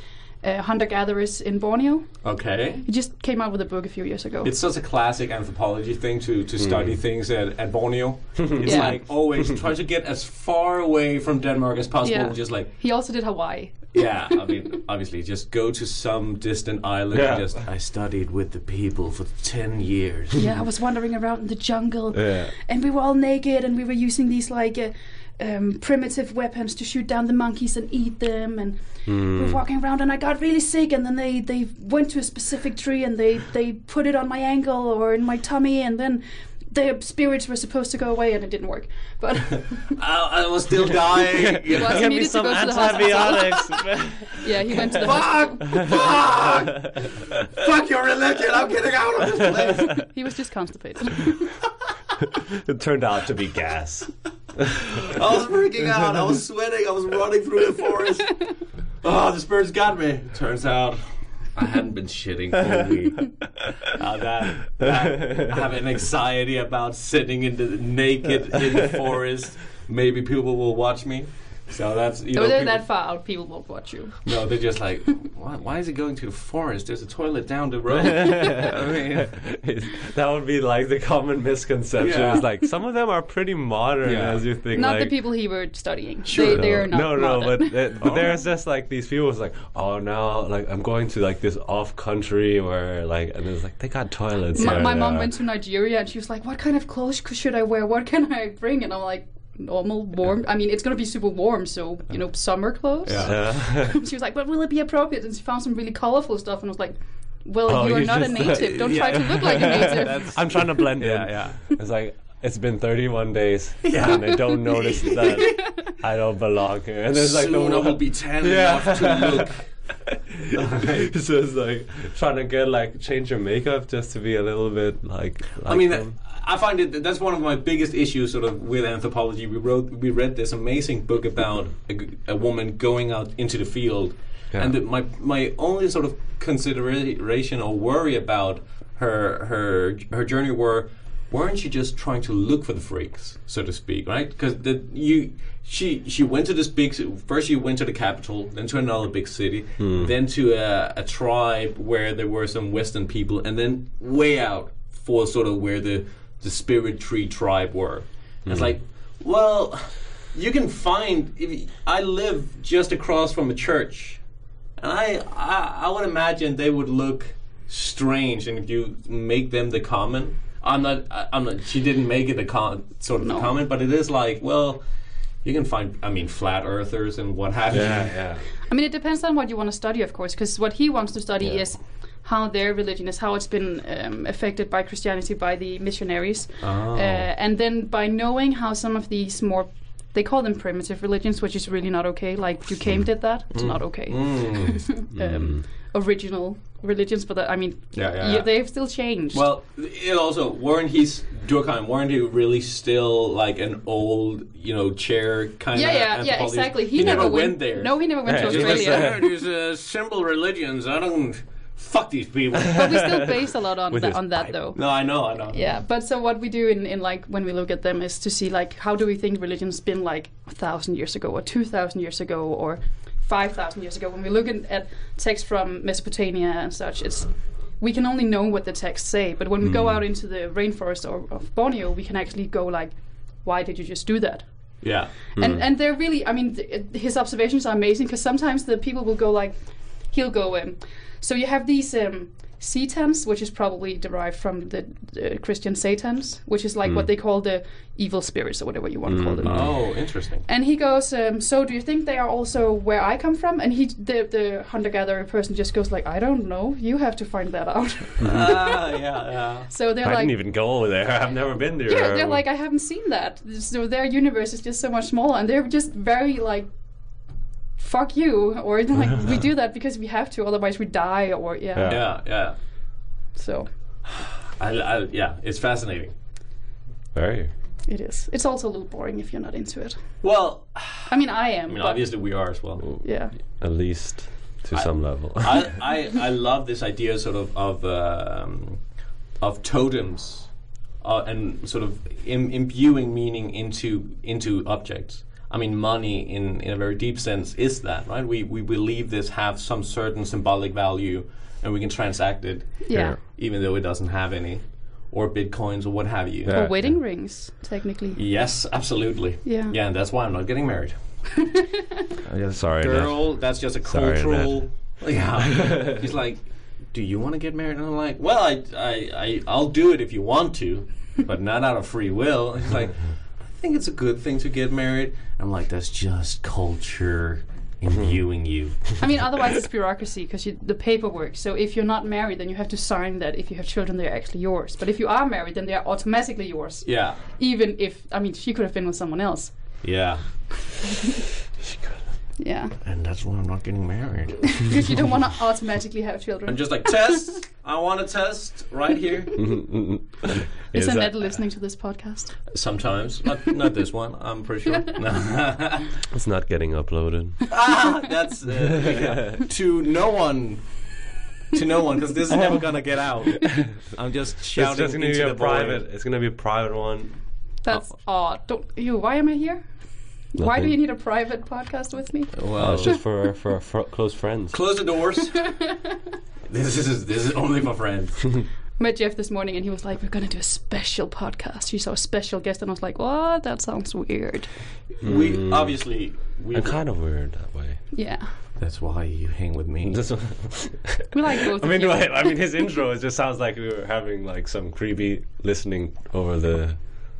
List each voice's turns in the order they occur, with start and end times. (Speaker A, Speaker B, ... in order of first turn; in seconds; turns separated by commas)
Speaker A: 0.4-2.1, Speaker B: 2.2-2.8, Speaker A: 2.8-4.5, Speaker B: 4.4-12.7, Speaker C: 6.6-7.0, Speaker C: 8.4-8.9, Speaker A: 8.6-9.0, Speaker A: 12.0-14.4, Speaker B: 13.9-20.5, Speaker C: 17.1-17.5, Speaker A: 20.3-40.0, Speaker C: 22.1-22.5, Speaker C: 29.1-29.6, Speaker B: 39.9-42.1, Speaker C: 41.3-45.0, Speaker A: 41.6-46.0, Speaker B: 45.0-50.1, Speaker C: 45.7-46.9, Speaker A: 49.8-51.5, Speaker C: 52.3-55.1, Speaker B: 55.0-72.8, Speaker A: 72.3-74.2, Speaker B: 74.2-79.4, Speaker C: 78.0-85.1, Speaker B: 82.0-82.5, Speaker B: 84.0-84.4, Speaker A: 84.7-88.0, Speaker B: 86.2-86.9, Speaker C: 86.3-95.3, Speaker B: 88.0-88.3, Speaker A: 94.5-110.3, Speaker B: 103.0-103.3, Speaker C: 103.2-104.0, Speaker C: 107.7-119.5, Speaker B: 108.4-111.6, Speaker B: 113.8-115.6, Speaker B: 117.1-119.7, Speaker C: 120.0-126.1, Speaker B: 120.5-121.1, Speaker B: 125.6-164.2, Speaker C: 149.8-150.1, Speaker C: 158.5-158.7, Speaker B: 164.8-174.8, Speaker A: 173.2-173.5, Speaker B: 175.4-178.2, Speaker C: 177.7-178.4, Speaker A: 178.7-199.4, Speaker B: 186.6-187.3, Speaker B: 193.5-194.9, Speaker C: 195.1-195.6, Speaker B: 197.9-198.5, Speaker B: 199.3-213.1, Speaker A: 205.7-209.2, Speaker C: 208.2-209.2, Speaker A: 212.7-214.8, Speaker C: 212.8-213.1, Speaker C: 213.9-214.5, Speaker B: 214.7-215.6, Speaker A: 215.5-234.4, Speaker C: 229.6-230.0, Speaker B: 234.8-235.1, Speaker A: 235.3-239.6, Speaker A: 240.1-249.9, Speaker C: 249.1-249.8, Speaker B: 249.4-250.4, Speaker A: 250.4-259.0, Speaker B: 258.2-259.7, Speaker C: 258.2-258.5, Speaker A: 259.7-260.4, Speaker C: 260.0-262.4, Speaker A: 261.9-266.7, Speaker A: 267.8-272.1, Speaker C: 271.7-272.1, Speaker B: 271.9-272.6, Speaker A: 273.3-273.7, Speaker B: 274.4-276.1, Speaker C: 277.1-277.5, Speaker A: 277.9-280.0, Speaker B: 280.2-281.1, Speaker A: 281.1-282.1, Speaker B: 281.7-282.9, Speaker A: 283.0-283.3, Speaker C: 283.6-285.7, Speaker B: 284.7-288.8, Speaker B: 289.4-290.5, Speaker B: 291.0-306.6, Speaker A: 302.8-303.1, Speaker C: 302.9-303.2, Speaker C: 306.5-307.0, Speaker A: 306.5-308.2, Speaker B: 308.1-310.9, Speaker A: 309.4-309.8, Speaker A: 311.4-312.1, Speaker B: 312.2-323.0, Speaker C: 312.5-313.2, Speaker C: 313.8-314.6, Speaker C: 315.5-316.0, Speaker B: 323.5-329.0, Speaker A: 329.0-339.5, Speaker B: 336.8-337.2, Speaker B: 339.8-340.2, Speaker A: 342.4-342.8, Speaker B: 342.8-344.9, Speaker A: 344.5-347.4, Speaker B: 346.4-349.4, Speaker C: 349.4-351.3, Speaker A: 350.7-352.4, Speaker B: 352.5-355.9, Speaker A: 354.6-355.0, Speaker C: 356.1-357.5, Speaker B: 357.5-360.6, Speaker C: 358.7-359.4, Speaker B: 361.5-365.8, Speaker C: 362.4-362.6, Speaker C: 364.5-367.2, Speaker A: 367.6-369.6, Speaker A: 370.3-372.4, Speaker C: 370.4-370.7, Speaker B: 372.4-373.0, Speaker C: 372.6-374.6, Speaker B: 374.5-375.5, Speaker A: 375.4-376.0, Speaker B: 376.5-378.4, Speaker A: 378.8-384.5, Speaker B: 385.0-386.8, Speaker C: 385.0-385.8, Speaker C: 386.5-387.8, Speaker A: 387.9-388.3, Speaker B: 388.6-390.1, Speaker C: 389.9-396.8, Speaker A: 391.1-392.4